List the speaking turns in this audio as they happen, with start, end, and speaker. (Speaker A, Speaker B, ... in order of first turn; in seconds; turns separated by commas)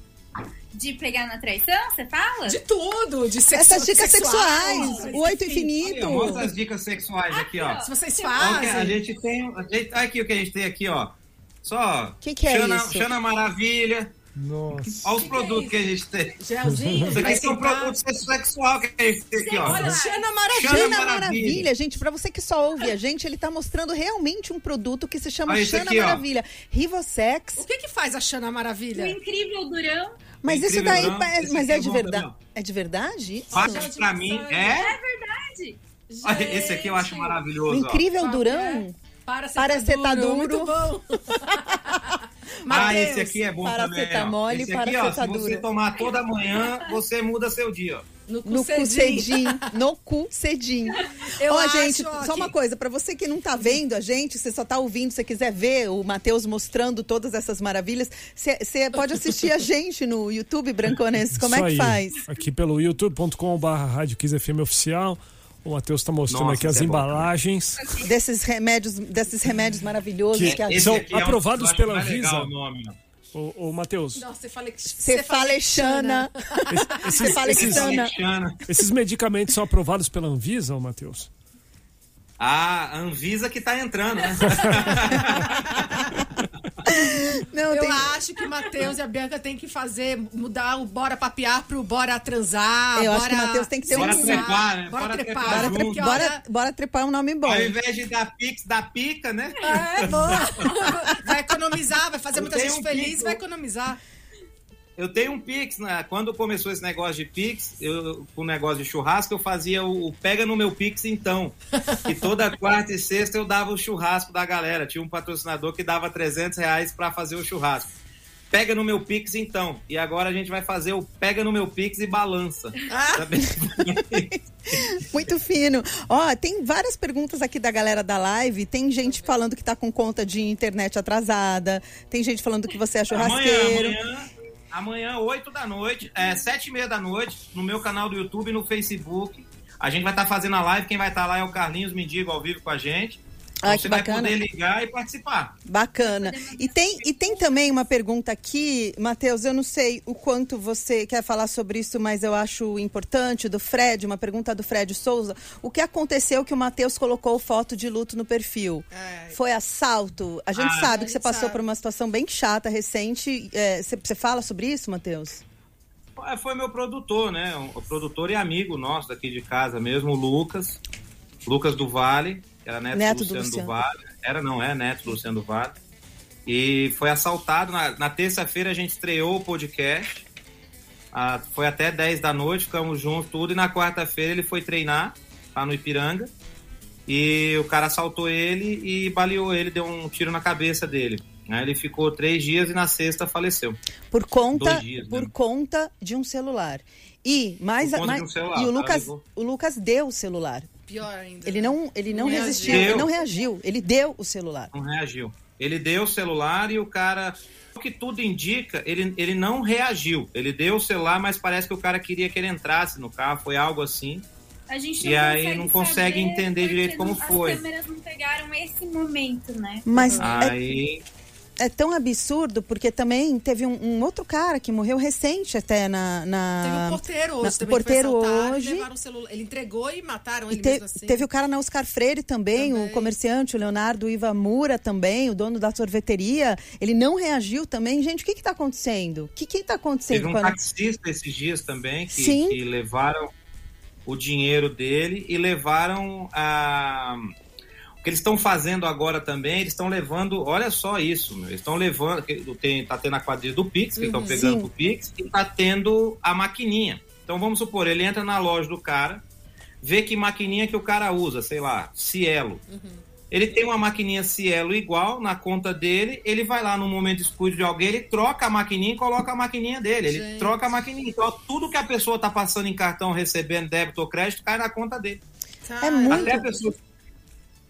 Speaker A: 0.7-2.6, Speaker B: 2.5-6.5, Speaker C: 3.5-6.5, Speaker D: 5.8-7.8, Speaker A: 7.3-8.7, Speaker B: 7.8-9.0, Speaker D: 8.4-14.2, Speaker C: 12.2-13.2, Speaker E: 14.4-15.2, Speaker D: 15.0-16.4, Speaker B: 15.1-15.7, Speaker A: 15.2-15.7, Speaker B: 16.4-18.0, Speaker E: 16.7-17.3, Speaker D: 17.1-21.7, Speaker A: 19.4-20.2, Speaker B: 19.6-21.0, Speaker C: 20.6-27.6, Speaker D: 25.5-26.2, Speaker B: 27.6-29.2, Speaker A: 28.9-30.2, Speaker C: 30.4-33.9, Speaker D: 30.4-32.4, Speaker B: 33.5-34.9, Speaker D: 33.5-34.9, Speaker A: 34.6-35.8, Speaker B: 36.1-37.4, Speaker D: 36.2-38.0, Speaker C: 37.7-39.0, Speaker B: 38.1-43.4, Speaker C: 39.6-45.7, Speaker D: 42.7-48.0, Speaker B: 48.3-49.6, Speaker C: 48.5-62.2, Speaker B: 51.4-52.5, Speaker E: 61.4-68.0, Speaker D: 66.3-67.3, Speaker A: 67.8-68.1, Speaker C: 68.0-71.0, Speaker E: 70.3-72.5, Speaker D: 70.5-73.0, Speaker E: 73.3-74.2, Speaker B: 74.2-77.3, Speaker C: 75.0-76.3, Speaker E: 76.7-78.0, Speaker C: 77.0-78.1, Speaker D: 77.4-78.6, Speaker E: 78.7-81.3, Speaker D: 82.4-86.2, Speaker C: 86.8-88.1, Speaker B: 87.7-96.4, Speaker C: 93.0-94.5, Speaker D: 93.9-96.3, Speaker C: 95.5-97.7, Speaker D: 97.5-100.7, Speaker B: 99.6-104.0, Speaker D: 102.3-103.4, Speaker D: 105.0-117.9, Speaker D: 118.5-125.0, Speaker B: 122.9-123.2, Speaker C: 124.0-134.0, Speaker D: 133.1-145.6, Speaker C: 143.6-144.3, Speaker C: 145.7-165.4, Speaker A: 146.0-147.6, Speaker B: 158.9-159.4, Speaker D: 160.6-160.9, Speaker B: 160.8-161.6, Speaker D: 166.2-170.8, Speaker D: 171.4-175.8, Speaker C: 172.9-173.7, Speaker D: 176.5-180.3, Speaker D: 181.1-186.3, Speaker D: 187.1-193.8, Speaker C: 194.1-200.7, Speaker D: 194.5-195.3, Speaker D: 197.8-199.2, Speaker B: 200.9-203.1, Speaker C: 201.4-204.7, Speaker D: 202.3-203.1, Speaker D: 204.7-214.3, Speaker A: 214.7-219.9, Speaker D: 215.0-217.6, Speaker C: 219.9-220.6, Speaker B: 219.9-220.3, Speaker D: 220.2-221.0, Speaker C: 221.6-228.9, Speaker B: 226.6-231.2, Speaker C: 230.5-240.6, Speaker B: 232.6-233.1, Speaker D: 240.1-243.3, Speaker C: 242.1-242.6, Speaker D: 244.1-247.3, Speaker D: 248.0-259.2, Speaker B: 254.0-254.4, Speaker C: 254.3-254.7, Speaker D: 259.8-262.6, Speaker B: 262.7-263.0, Speaker D: 263.3-275.2, Speaker B: 270.1-270.6, Speaker B: 275.6-276.5, Speaker C: 275.8-276.5, Speaker D: 276.1-276.8